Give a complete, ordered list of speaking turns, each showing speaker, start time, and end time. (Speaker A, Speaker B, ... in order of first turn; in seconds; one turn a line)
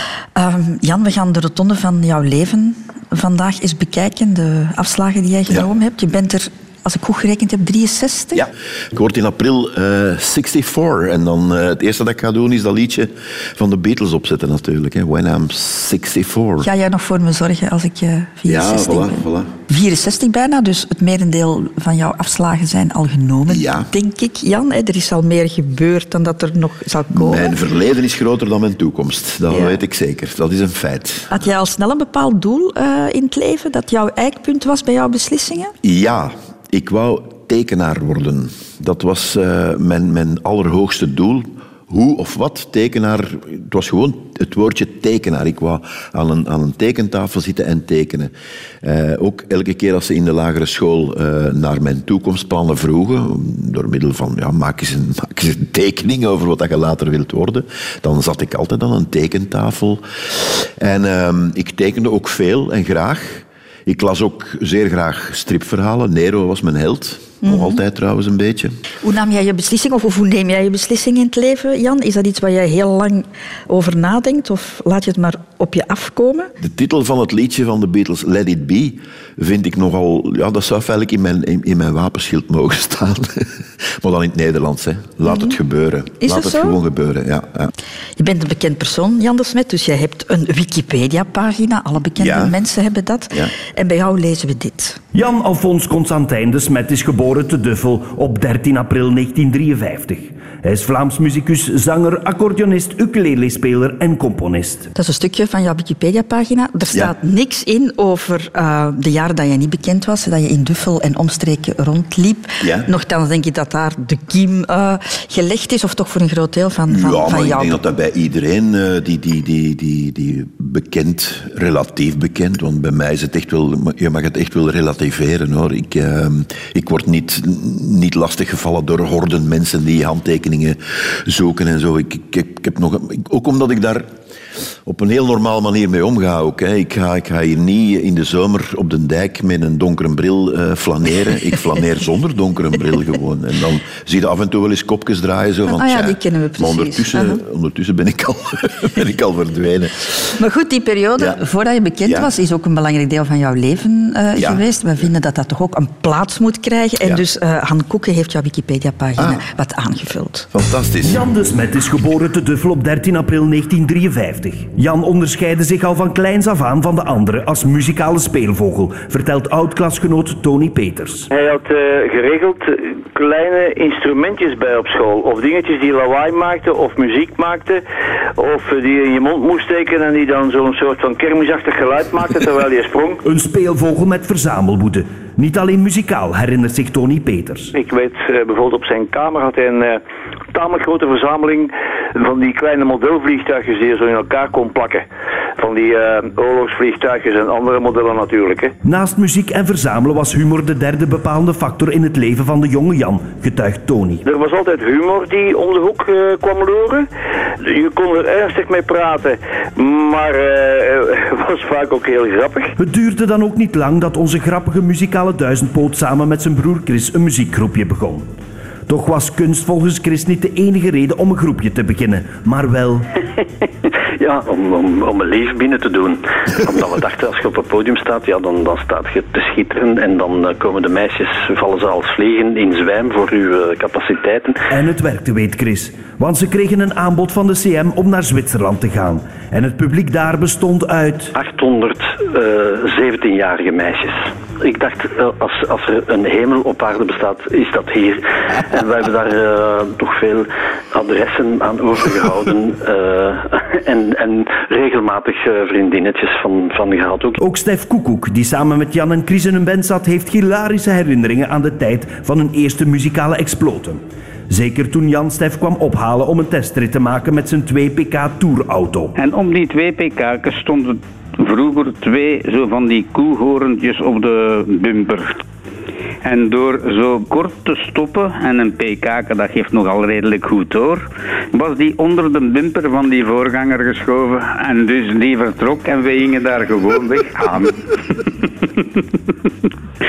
Speaker A: 0.3-8.4
Speaker B: 8.3-16.7
Speaker A: 16.6-27.5
Speaker B: 18.5-19.5
Speaker B: 23.5-23.9
Speaker B: 27.1-31.5
Speaker A: 29.5-29.8
Speaker A: 31.3-35.7
Speaker B: 35.8-68.7
Speaker A: 67.4-67.8
Speaker A: 69.0-76.5
Speaker B: 76.6-87.7
Speaker A: 85.3-85.6
Speaker A: 86.2-86.8
Speaker A: 88.2-95.0
Speaker B: 92.2-92.5
Speaker C: 95.1-104.9
Speaker A: 105.0-117.8
Speaker B: 112.6-112.9
Speaker B: 116.9-134.1
Speaker B: 134.9-150.3
Speaker A: 145.7-147.4
Speaker A: 150.3-160.5
Speaker B: 152.0-152.3
Speaker B: 154.3-154.6
Speaker B: 159.2-159.4
Speaker B: 160.5-161.2
Speaker C: 161.0-171.3
Speaker D: 171.3-177.8
Speaker D: 178.4-183.2
Speaker C: 183.2-187.7
Speaker D: 187.7-190.0
Speaker D: 190.5-195.1
Speaker D: 195.6-198.7
Speaker C: 198.8-204.2
Speaker D: 204.2-207.1
Speaker D: 207.6-212.7
Speaker C: 212.8-218.3
Speaker C: 218.9-223.1
Speaker E: 224.2-234.6
Speaker C: 234.7-241.3
Speaker E: 241.3-257.4
Speaker C: 257.4-269.1
Speaker F: 269.2-275.3
Speaker F: 276.2-289.0